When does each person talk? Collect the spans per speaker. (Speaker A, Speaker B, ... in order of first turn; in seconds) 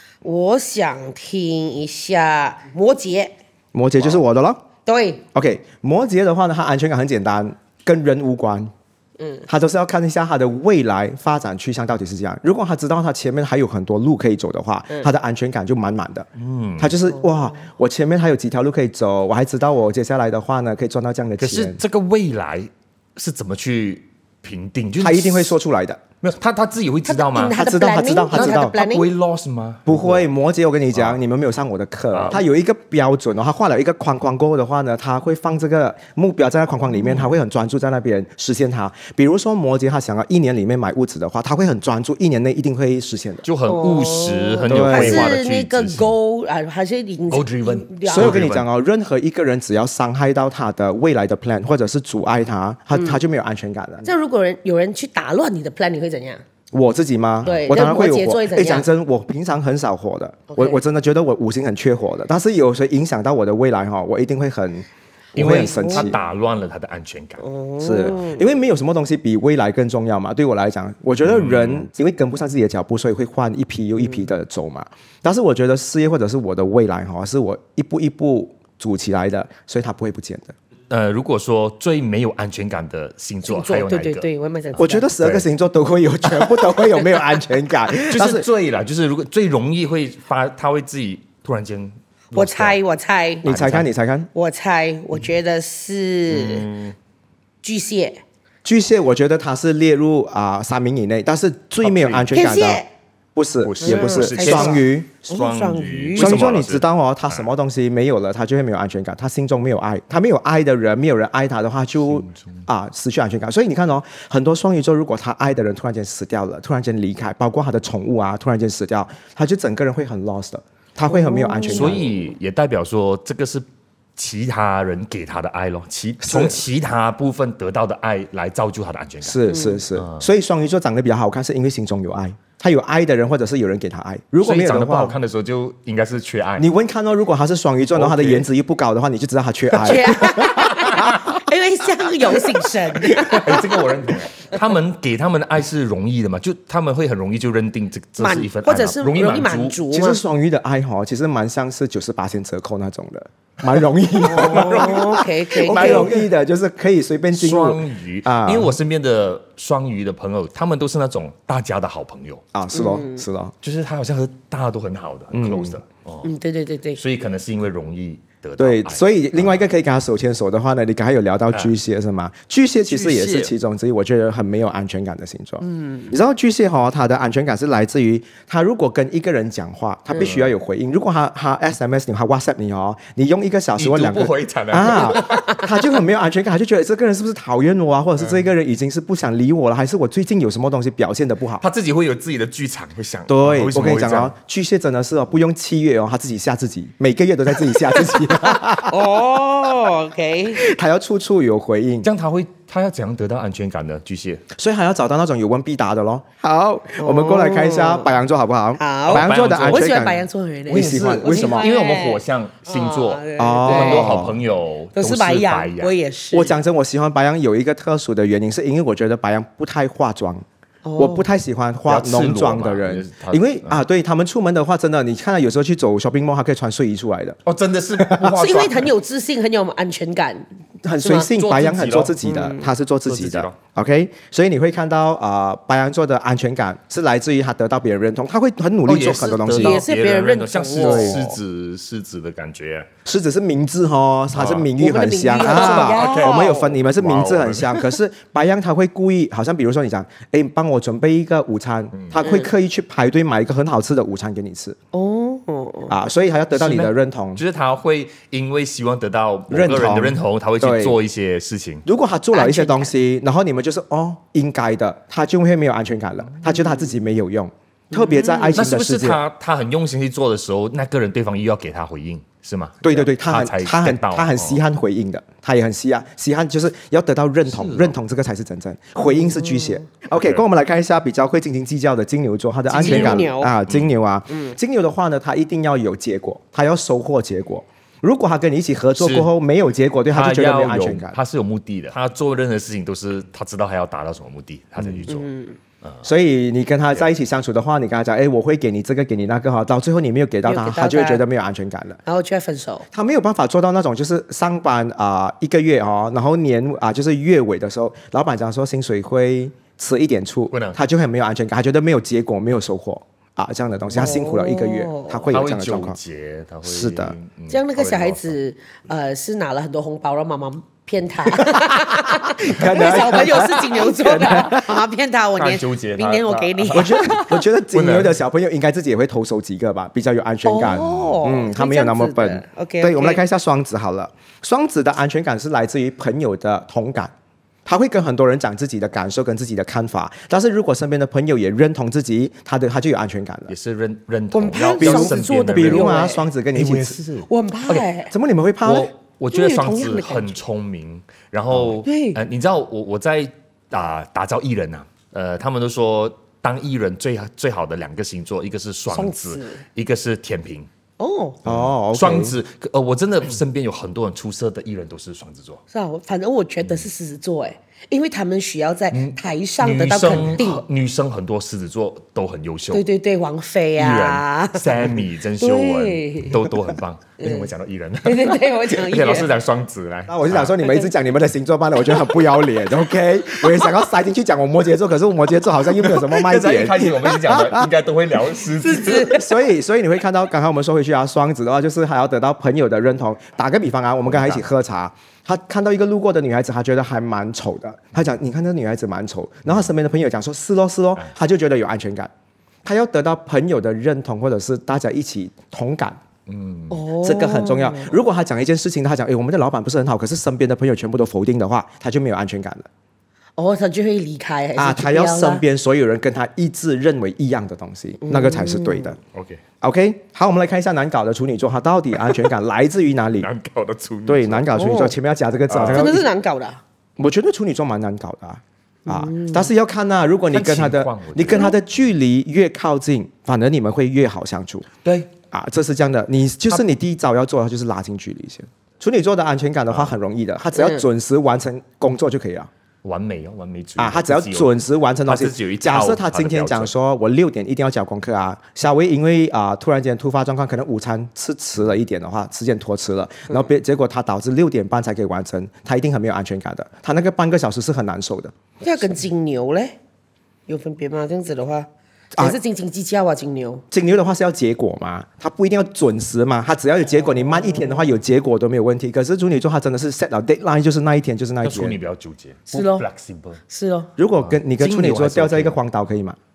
Speaker A: 0.2-3.3, 4.8-5.2, 9.2-9.5, 17.1-17.5, 27.1-29.1, 43.7-48.4, 52.9-53.2, 54.0-56.4, 57.5-58.9, 60.5-60.8, 65.4-66.1, 67.4-68.5, 83.5-85.1, 86.6-86.9, 92.3-93.5, 94.3-96.7, 97.6-98.2, 102.3-102.9, 103.8-106.4, 121.1-122.0, 129.5-129.8, 139.8-143.7, 148.2-150.2, 154.2-156.2, 162.7-163.2, 166.2-167.0, 175.8-176.1, 198.5-200.6, 207.0-208.2, 208.8-214.2, 214.9-216.6, 220.8-221.2, 228.2-230.5, 231.0-231.3, 232.2-232.7, 239.1-241.4, 244.8-246.7, 252.2-252.5, 254.9-255.9, 262.3-262.9, 267.9-268.6, 279.0-279.8, 282.7-283.5, 284.3-284.6, 295.1-295.6, 300.4-301.2, 302.1-302.9, 313.9-315.3, 317.5-327.4, 330.4-333.2, 344.3-346.3, 347.2-348.1, 349.3-350.4, 351.8-352.2, 358.9-359.6, 361.0-361.4, 365.7-370.6, 372.7-376.5, 377.2-377.5, 378.0-379.3, 380.6-380.9, 381.9-382.5, 406.7-408.0, 413.4-415.4, 418.0-418.9, 424.5-425.0, 425.6-426.6, 428.9-429.5, 440.5-440.9, 458.6-459.8, 460.5-463.6, 472.5-472.9, 473.5-473.9
Speaker B: 3.7-4.6, 5.3-8.7, 9.5-16.3, 16.8-21.8, 25.0-26.0, 27.5-28.8, 29.9-43.5, 44.7-45.4, 48.1-54.1, 56.7-66.2, 67.8-80.5, 84.8-88.5, 93.4-94.3, 98.7-102.8, 103.3-105.1, 106.2-122.2, 126.2-126.6, 129.2-135.2, 136.6-140.4, 149.9-158.8, 162.5-163.5, 165.3-165.8, 168.6-191.7, 193.3-199.0, 200.5-202.1, 204.6-211.7, 213.4-214.4, 216.3-220.4, 221.0-227.4, 228.0-228.4, 230.8-239.8, 240.7-241.2, 243.1-254.8, 255.9-257.4, 259.5-261.0, 261.9-269.2, 272.8-291.2, 296.0-302.0, 302.9-316.0, 316.6-317.2, 321.3-324.8, 326.7-337.1, 337.6-343.5, 344.8-347.0, 348.1-348.9, 361.4-362.4, 380.1-387.7, 388.6-402.1, 402.6-406.0, 407.0-412.7, 414.6-419.0, 419.6-423.3, 424.1-426.1, 427.0-434.7, 435.3-442.5, 443.8-458.3, 463.7-471.8, 474.0-476.2
Speaker C: 4.0-4.2, 16.4-17.0, 21.4-25.6, 26.2-27.6, 28.3-30.3, 30.9-31.2, 32.1-32.4, 43.4-46.1, 47.3-48.7, 65.3-67.5, 71.2-71.9, 80.9-85.5, 87.9-92.8, 93.5-93.9, 96.3-97.0, 101.8-102.5, 103.6-107.5, 112.1-112.7, 121.7-129.4, 130.0-130.3, 134.4-136.7, 137.9-138.5, 140.8-141.1, 143.1-149.8, 157.3-162.4, 163.6-166.3, 166.9-169.7, 171.5-171.8, 172.9-173.5, 180.2-180.5, 183.8-185.7, 191.6-194.3, 202.0-204.4, 209.1-209.9, 210.7-215.9, 221.9-223.8, 227.5-228.9, 231.3-232.2, 233.1-233.6, 238.8-242.9, 244.3-244.7, 245.4-247.8, 256.5-261.9, 268.5-274.6, 277.4-278.0, 280.1-280.4, 282.8-283.9, 289.0-289.3, 290.1-295.3, 310.5-310.8, 315.3-318.4, 325.4-328.2, 343.5-346.0, 346.5-347.9, 348.6-360.7, 361.5-365.6, 366.6-366.9, 368.9-372.9, 373.8-380.6, 385.5-389.2, 394.1-394.5, 406.3-406.8, 419.1-419.4, 423.2-424.5, 425.5-425.9, 430.3-431.6, 434.8-435.1, 439.7-440.0, 442.8-446.7, 471.4-473.4, 474.2-475.6